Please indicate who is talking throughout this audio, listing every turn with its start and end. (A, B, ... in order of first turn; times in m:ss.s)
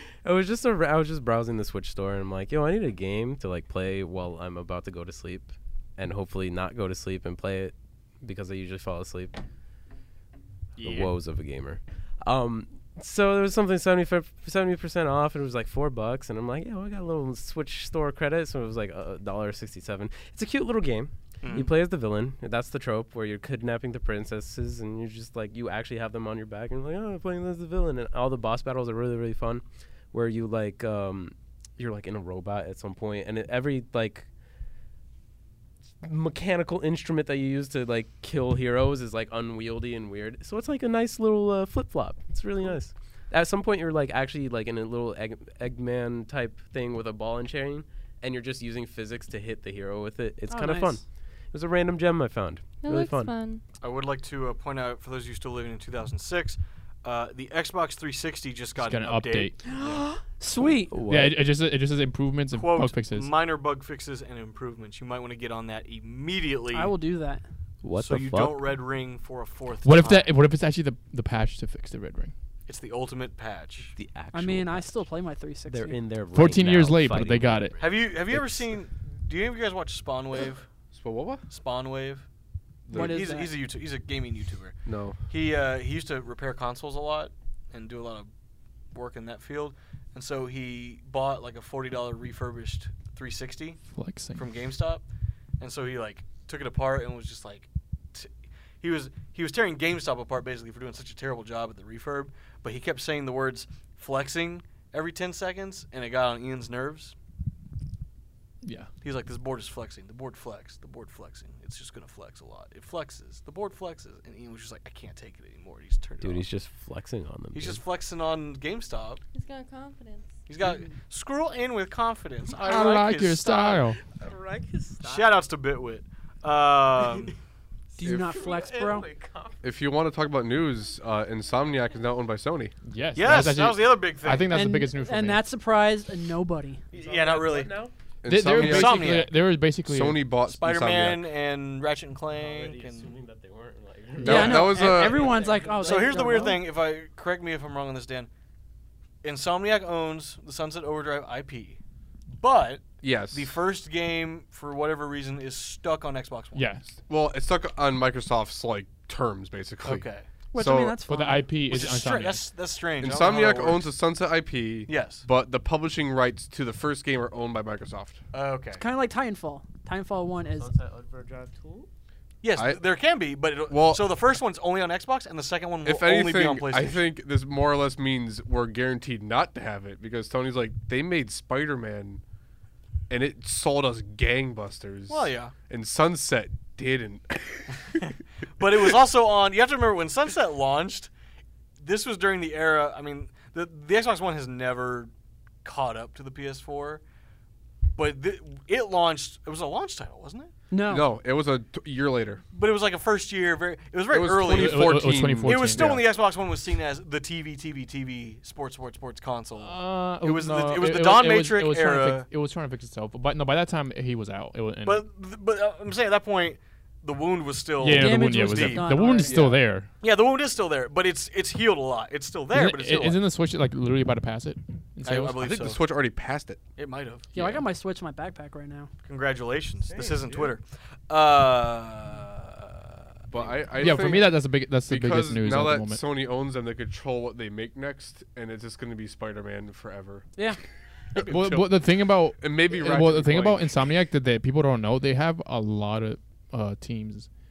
0:00.2-0:09.4 A
0:10.8-0:11.1 B
0:10.8-0:34.3 A
0:21.4-0:21.7 B
0:36.0-0:53.3 A
0:50.5-0:51.0 C
0:52.8-0:53.6 D
0:53.8-1:00.0 B
0:58.8-0:59.6 E
0:59.6-1:00.9 C
1:00.9-1:01.4 A
1:01.1-1:03.3 E
1:02.5-1:06.9 B
1:06.7-1:07.4 C
1:07.8-1:08.6 A
1:08.0-1:10.3 B
1:09.8-1:12.3 E
1:12.7-1:13.9 B
1:14.0-1:15.0 A
1:14.3-1:16.0 C
1:15.7-1:18.4 A
1:16.3-1:17.8 E
1:17.8-1:20.6 B
1:20.9-1:21.4 F
1:21.5-1:22.3 B
1:22.9-1:23.2 F
1:22.9-1:28.3 B
1:22.9-1:23.5 C
1:24.9-1:25.2 F
1:28.9-1:33.8 B
1:33.9-1:34.4 E
1:34.4-1:35.0 B
1:35.6-1:38.3 B
1:38.8-1:47.1 B
1:48.6-1:48.9 E
1:49.0-1:56.5 B
1:56.2-1:57.8 A
1:57.5-1:59.2 B
1:59.3-2:00.4 D
2:00.5-2:03.8 B
2:02.6-2:04.0 E
2:04.0-2:05.3 A
2:05.0-2:07.3 B
2:08.0-2:09.1 C
2:08.0-2:09.7 A
2:08.0-2:08.4 F
2:09.6-2:12.7 F
2:12.9-2:15.4 E
2:13.1-2:14.6 B
2:14.5-2:16.8 C
2:16.9-2:17.8 B
2:16.9-2:17.9 A
2:18.2-2:19.3 F
2:18.3-2:20.2 E
2:18.5-2:19.3 B
2:19.8-2:21.3 F
2:20.5-2:23.1 B
2:22.3-2:26.5 A
2:24.2-2:25.3 F
2:24.2-2:26.6 C
2:25.8-2:28.3 B
2:29.2-2:31.8 B
2:32.4-2:36.6 B
2:33.0-2:33.5 F
2:36.6-2:36.9 E
2:37.1-2:41.0 F
2:39.8-2:40.3 B
2:40.5-2:41.5 C
2:41.1-2:42.5 E
2:41.7-2:43.9 B
2:43.0-2:48.2 F
2:44.9-2:45.3 B
2:48.3-2:48.8 B
2:48.8-2:50.7 C
2:50.6-2:51.9 A
2:52.4-2:57.0 B
2:52.6-2:52.8 F
2:53.7-2:54.1 F
2:55.8-3:02.2 F
3:03.1-3:07.8 F
3:05.1-3:05.5 B
3:08.0-3:11.1 B
3:11.8-3:15.1 B
3:15.6-3:17.0 B
3:18.0-3:20.5 B
3:20.7-3:21.1 C
3:20.9-3:22.4 F
3:22.5-3:32.3 B
3:24.1-3:26.1 F
3:24.4-3:26.0 E
3:29.6-3:35.0 E
3:34.8-3:43.2 B
3:37.8-3:39.9 E
3:37.9-3:39.4 C
3:39.3-3:39.6 F
3:42.5-3:45.5 E
3:45.0-3:45.8 B
3:45.4-3:46.6 F
3:46.8-3:47.3 B
3:47.4-3:48.9 C
3:47.4-3:47.6 E
3:49.0-3:54.0 B
3:49.9-3:50.5 A
3:53.3-4:00.3 F
3:53.8-3:56.0 E
4:01.1-4:03.8 F
4:01.2-4:07.3 E